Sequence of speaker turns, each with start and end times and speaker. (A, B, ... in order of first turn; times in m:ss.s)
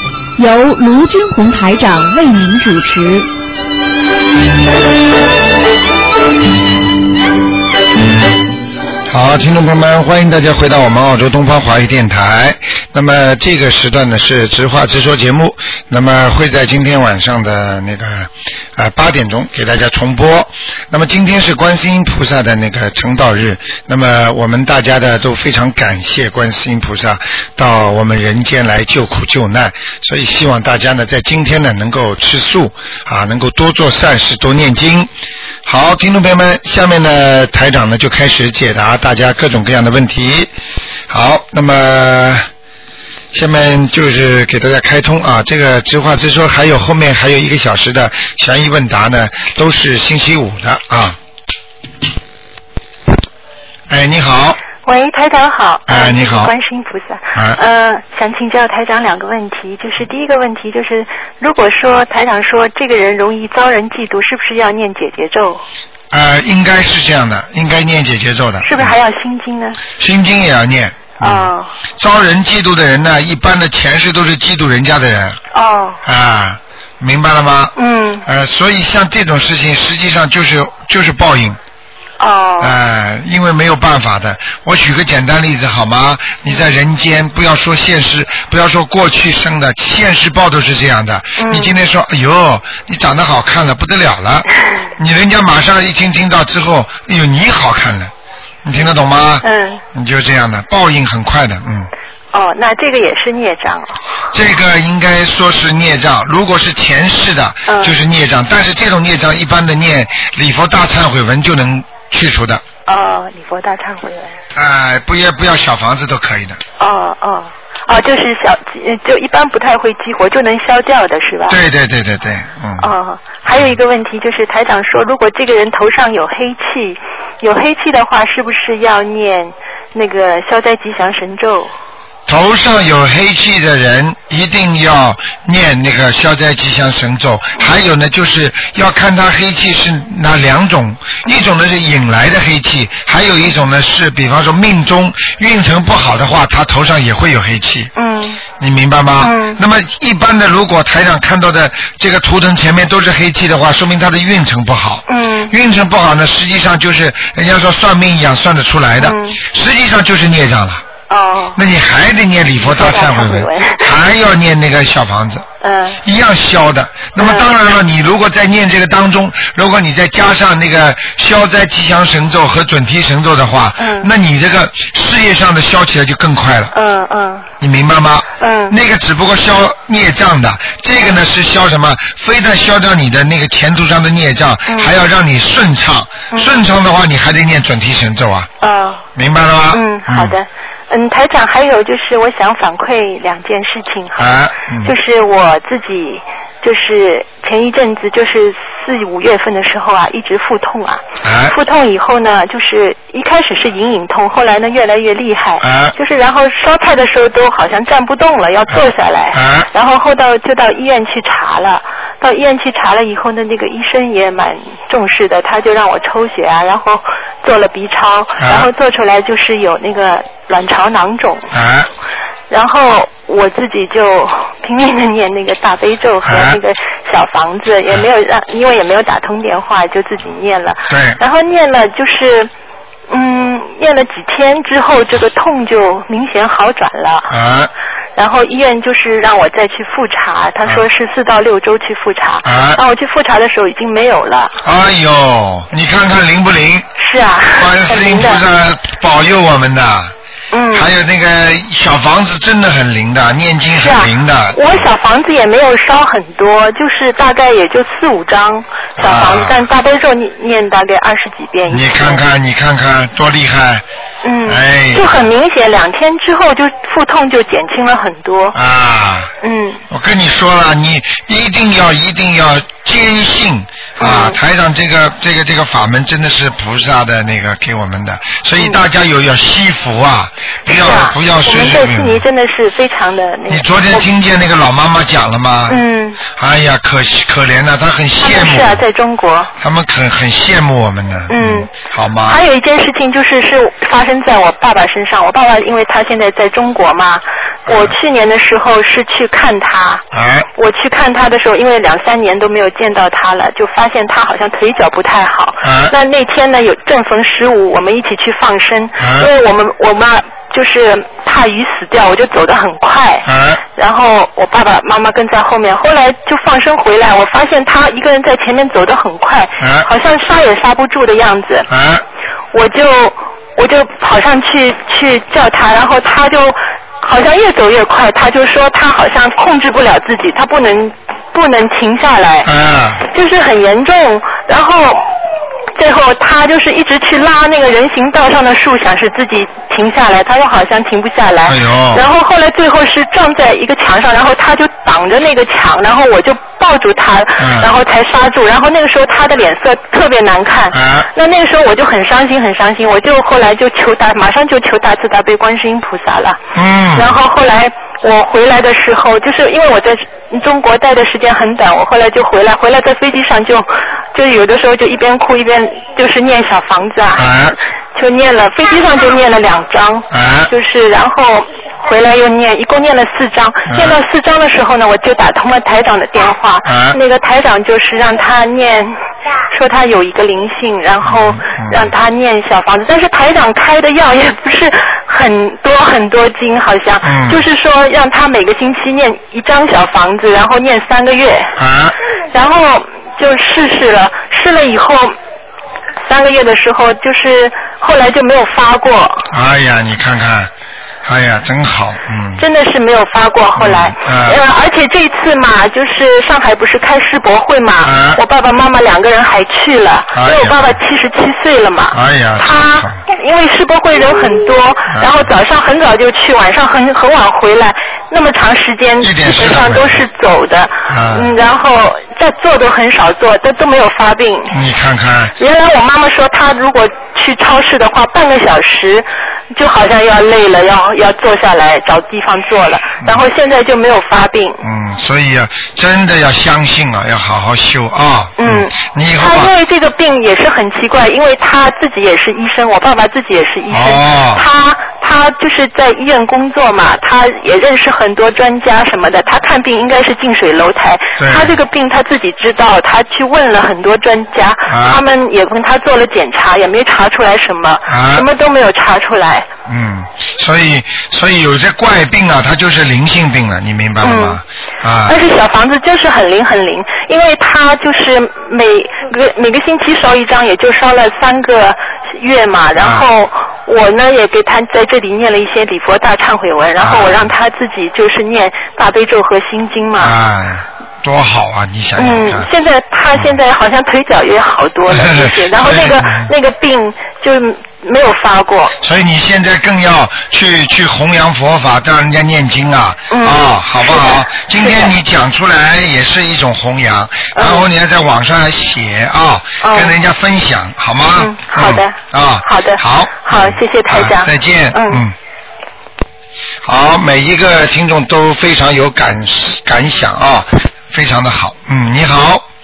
0:00.4-0:03.3 A
0:09.1-0:35.1 B
0:35.7-0:40.5 B
0:41.1-0:42.5 B
0:43.3-0:51.2 B
0:53.9-0:54.6 B
0:54.8-1:05.6 C
0:55.9-0:56.5 B
0:57.4-0:57.6 B
1:06.1-1:09.0 B
1:08.6-1:09.8 C
1:10.0-1:15.4 B
1:11.2-1:11.7 C
1:15.5-1:16.0 C
1:16.0-1:17.7 B
1:17.8-1:18.3 C
1:18.3-1:21.6 B
1:22.2-1:22.8 C
1:22.6-1:34.5 B
1:31.4-1:31.8 C
1:35.0-1:38.1 B
1:38.6-1:41.9 B
1:39.4-1:39.8 C
1:42.3-1:44.0 C
1:44.3-1:52.6 B
1:47.7-1:48.0 C
1:52.9-1:54.4 C
1:54.6-1:56.6 B
1:56.8-2:01.6 C
2:01.5-2:02.9 B
2:02.8-2:11.7 C
2:12.3-2:27.9 B
2:28.0-2:28.4 C
2:28.6-2:40.8 B
2:29.2-2:29.6 C
2:35.1-2:35.5 C
2:39.0-2:39.4 C
2:41.1-2:41.6 C
2:41.6-2:45.4 B
2:42.6-2:43.9 C
2:45.6-2:46.0 C
2:46.0-2:56.7 B
2:47.2-2:47.5 C
2:53.8-2:54.1 C
2:56.7-2:57.5 C
2:57.6-3:08.5 B
2:58.4-2:58.8 C
3:04.7-3:04.9 C
3:08.6-3:09.0 C
3:09.2-3:10.4 B
3:09.7-3:14.3 C
3:14.2-3:14.9 B
3:14.8-3:41.5 C
3:21.2-3:21.6 B
3:25.6-3:26.0 B
3:28.7-3:29.7 B
3:38.4-3:38.7 B
3:41.5-3:41.9 B
3:42.5-3:52.5 C
3:46.2-3:46.6 B
3:50.9-3:51.2 B
3:53.1-3:57.4 C
3:57.3-3:57.7 B
3:58.2-4:04.6 C
4:02.4-4:02.8 B
4:04.6-4:06.9 B
4:07.0-4:08.4 C
4:07.5-4:10.1 B
4:10.5-4:10.9 C
4:10.7-4:14.9 B
4:13.8-4:22.2 C
4:19.0-4:19.6 B
4:21.7-4:23.8 B
4:24.2-4:28.6 C
4:24.5-4:25.3 B
4:28.5-4:29.3 B
4:29.4-4:29.8 C
4:29.9-4:42.2 B
4:34.0-4:34.4 C
4:40.7-4:44.1 C
4:43.5-4:48.8 B
4:45.7-4:46.2 C
4:48.2-4:49.5 C
4:49.6-4:52.4 B
4:51.3-4:51.7 C
4:52.3-5:00.0 C
4:57.7-4:57.9 B
5:00.1-5:00.5 B
5:00.6-5:21.7 C
5:05.6-5:06.0 B
5:09.0-5:09.3 B
5:13.2-5:13.6 B
5:19.6-5:19.9 B
5:21.7-5:22.0 B
5:22.5-5:32.5 C
5:32.4-5:33.0 B
5:33.1-5:35.1 C
5:35.8-5:56.4 C
5:41.5-5:42.0 B
5:47.4-5:47.7 B
5:50.7-5:51.1 B
5:56.6-5:57.1 B
5:57.0-6:07.3 C
6:07.2-6:07.6 B
6:08.0-6:31.6 C
6:10.1-6:10.5 B
6:13.7-6:14.0 B
6:16.6-6:17.0 B
6:21.0-6:21.9 B
6:27.0-6:27.4 B
6:31.6-6:32.0 B
6:32.3-6:35.2 C
6:36.1-6:39.3 C
6:39.3-6:40.5 B
6:41.0-6:42.4 B
6:42.4-7:04.6 C
6:43.6-6:44.4 B
6:47.8-6:48.2 B
6:50.1-6:50.8 B
6:51.9-6:53.0 B
6:54.9-6:55.3 B
6:59.0-7:00.0 B
7:00.9-7:01.4 B
7:04.5-7:05.3 B
7:05.4-7:14.6 C
7:14.6-7:19.5 B
7:18.4-7:39.5 C
7:23.7-7:24.4 B
7:31.2-7:31.6 B
7:34.7-7:35.0 B
7:37.9-7:38.3 B
7:39.7-7:45.2 B
7:44.0-7:44.4 C
7:45.1-8:00.2 C
7:52.8-7:53.1 B
7:56.8-7:57.3 B
8:00.0-8:02.5 B
8:02.0-8:08.8 C
8:04.9-8:06.3 B
8:08.8-8:25.2 B
8:13.1-8:14.9 C
8:17.4-8:17.7 C
8:19.6-8:20.0 C
8:21.2-8:25.0 C
8:26.6-8:32.5 B